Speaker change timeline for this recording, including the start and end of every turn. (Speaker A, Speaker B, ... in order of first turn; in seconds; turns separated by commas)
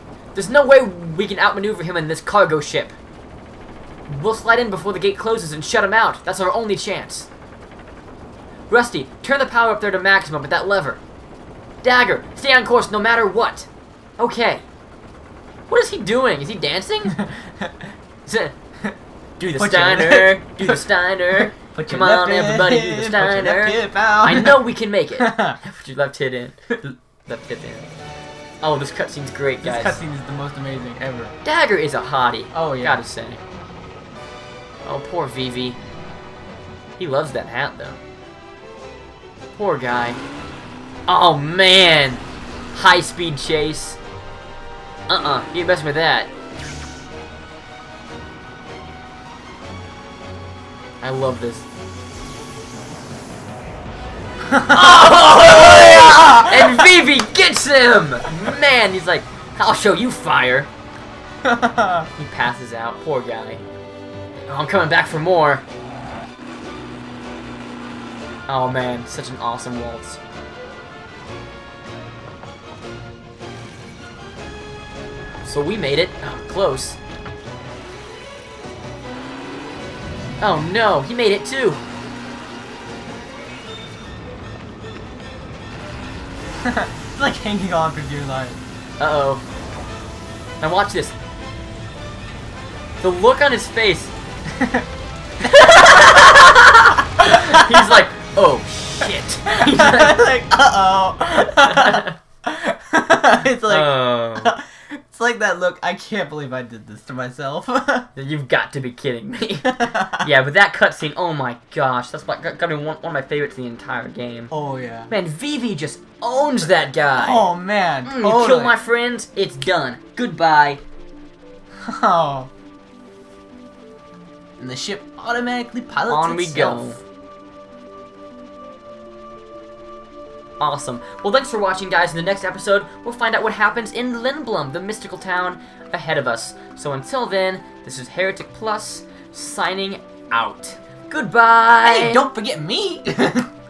Speaker A: 0.3-3.0, Speaker A: 4.1-7.3, Speaker A: 8.7-11.0, Speaker A: 11.8-14.7, Speaker A: 15.7-17.3, Speaker B: 17.2-17.7, Speaker A: 18.3-18.6, Speaker A: 19.4-26.6, Speaker B: 19.6-25.6, Speaker A: 27.3-27.9, Speaker A: 28.6-30.0, Speaker B: 29.6-31.4, Speaker A: 31.4-33.4, Speaker B: 32.5-33.0, Speaker A: 34.8-35.8, Speaker A: 37.0-38.0, Speaker A: 39.5-40.2, Speaker A: 41.1-44.0, Speaker A: 45.1-46.3, Speaker A: 51.0-51.6, Speaker B: 54.5-56.9, Speaker A: 54.7-60.7, Speaker B: 61.4-62.1, Speaker A: 62.1-63.6, Speaker A: 64.5-65.6, Speaker A: 68.5-70.2, Speaker A: 75.4-77.0, Speaker A: 80.4-81.8, Speaker B: 86.6-88.6, Speaker A: 89.0-89.5, Speaker A: 90.6-91.2, Speaker A: 93.0-94.1, Speaker B: 94.5-94.9, Speaker A: 95.4-100.2, Speaker B: 95.5-98.0, Speaker B: 99.5-108.1, Speaker A: 101.6-102.2, Speaker A: 103.6-104.5, Speaker A: 108.1-114.5, Speaker B: 109.7-110.3, Speaker B: 114.5-115.1, Speaker A: 115.1-117.5, Speaker B: 117.2-118.8, Speaker A: 118.0-120.8, Speaker B: 121.8-122.5, Speaker B: 124.6-127.0, Speaker A: 126.1-127.0, Speaker A: 130.6-142.3, Speaker B: 141.8-143.5